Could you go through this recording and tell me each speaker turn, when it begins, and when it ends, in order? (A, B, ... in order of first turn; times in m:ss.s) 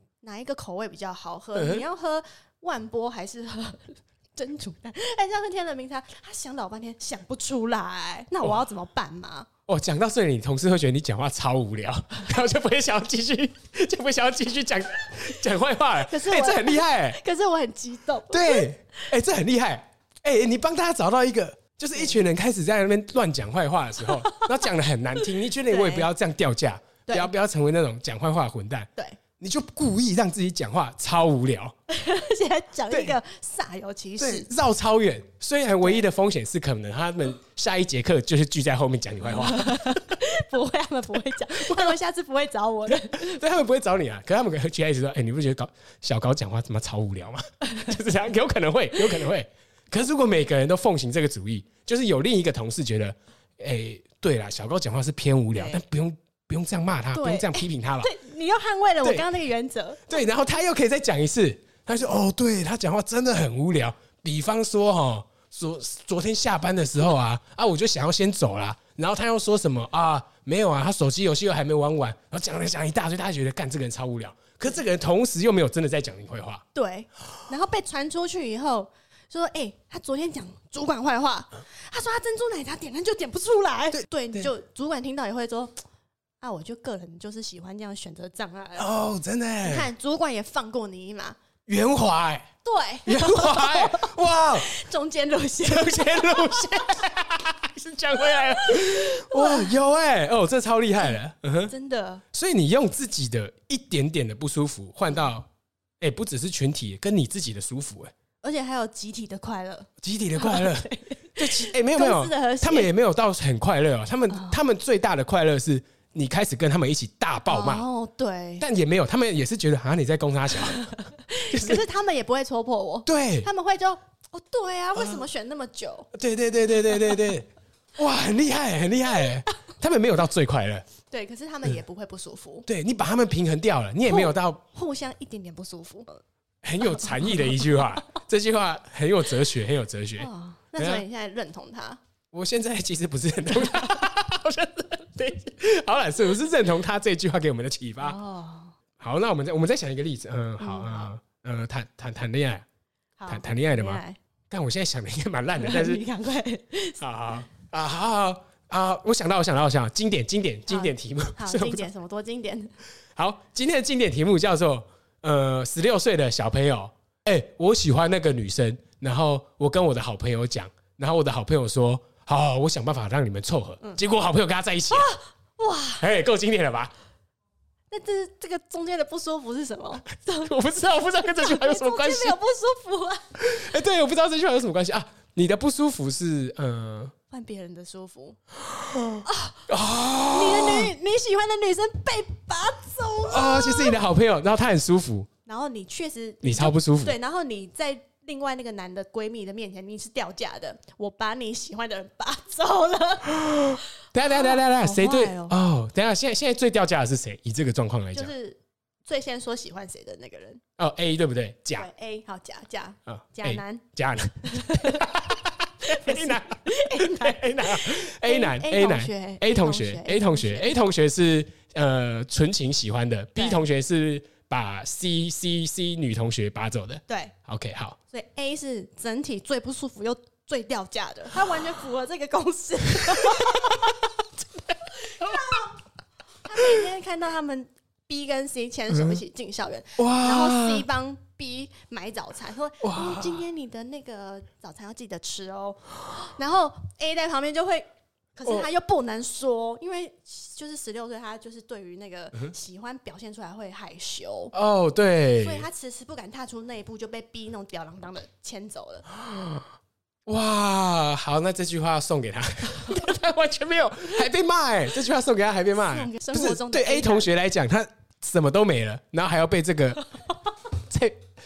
0:00.2-0:09.5 A
0:01.6-0:01.8 B
0:08.4-0:08.6 B
0:09.7-0:17.2 B
0:16.0-0:18.7 A
0:18.3-0:31.7 B
0:24.1-0:24.5 A
0:25.7-0:26.1 A
0:27.1-0:27.3 A
0:31.9-0:34.5 A
0:32.9-0:33.2 B
0:34.2-0:40.0 B
0:39.4-0:43.4 A
0:41.6-0:42.0 B
0:42.9-0:58.1 B
0:55.5-0:55.8 A
0:57.1-1:00.0 A
1:00.1-1:16.6 B
1:16.7-1:25.8 A
1:23.9-1:24.5 B
1:26.4-1:28.9 A
1:28.8-1:29.9 B
1:29.6-1:31.4 A
1:31.7-1:32.5 B
1:32.6-1:36.7 A
1:33.1-1:34.7 B
1:35.6-1:41.7 B
1:38.3-1:39.8 A
1:41.0-1:42.2 A
1:42.3-1:45.5 B
1:46.0-1:48.1 B
1:48.4-1:52.9 A
1:50.0-1:57.9 B
1:54.3-1:54.6 A
1:57.5-1:58.6 A
1:58.6-2:00.9 B
2:00.6-2:06.1 A
2:01.5-2:01.8 B
2:03.1-2:03.5 B
2:05.0-2:05.2 B
2:06.1-2:10.8 B
2:11.1-2:12.7 A
2:12.7-2:14.6 B
2:14.1-2:16.2 A
2:16.6-2:21.0 B
2:16.8-2:17.3 A
2:20.2-2:22.0 A
2:22.3-2:28.2 B
2:28.0-2:28.8 A
2:29.0-2:32.6 B
2:30.6-2:31.1 A
2:33.2-2:34.2 A
2:33.3-2:36.0 B
2:35.6-2:37.0 A
2:37.0-2:41.9 B
2:40.7-2:42.7 A
2:43.2-2:55.1 B
2:54.9-2:56.1 A
2:56.0-2:56.9 B
2:57.9-3:00.6 A
3:00.4-3:02.4 B
3:01.2-3:03.2 A
3:03.4-3:07.1 B
3:07.3-3:08.4 A
3:08.7-3:10.9 B
3:09.2-3:09.7 A
3:10.3-3:14.0 A
3:13.3-3:15.3 B
3:15.5-3:25.6 A
3:16.4-3:17.2 B
3:23.4-3:28.3 B
3:28.1-3:30.6 A
3:30.8-3:31.9 B
3:31.8-3:33.9 A
3:33.1-3:48.0 B
3:34.4-3:35.2 A
3:35.8-3:40.8 A
3:43.4-3:43.6 A
3:47.1-3:47.4 A
3:48.1-3:53.9 A
3:53.2-3:53.6 B
3:55.0-3:55.7 A
3:56.4-4:14.5 A
3:58.9-3:59.2 B
4:00.0-4:00.9 B
4:02.8-4:03.4 B
4:14.5-4:15.7 B
4:15.4-4:19.1 A
4:19.1-4:19.6 B
4:20.3-4:30.1 B
4:25.8-4:27.3 A
4:30.8-4:31.2 B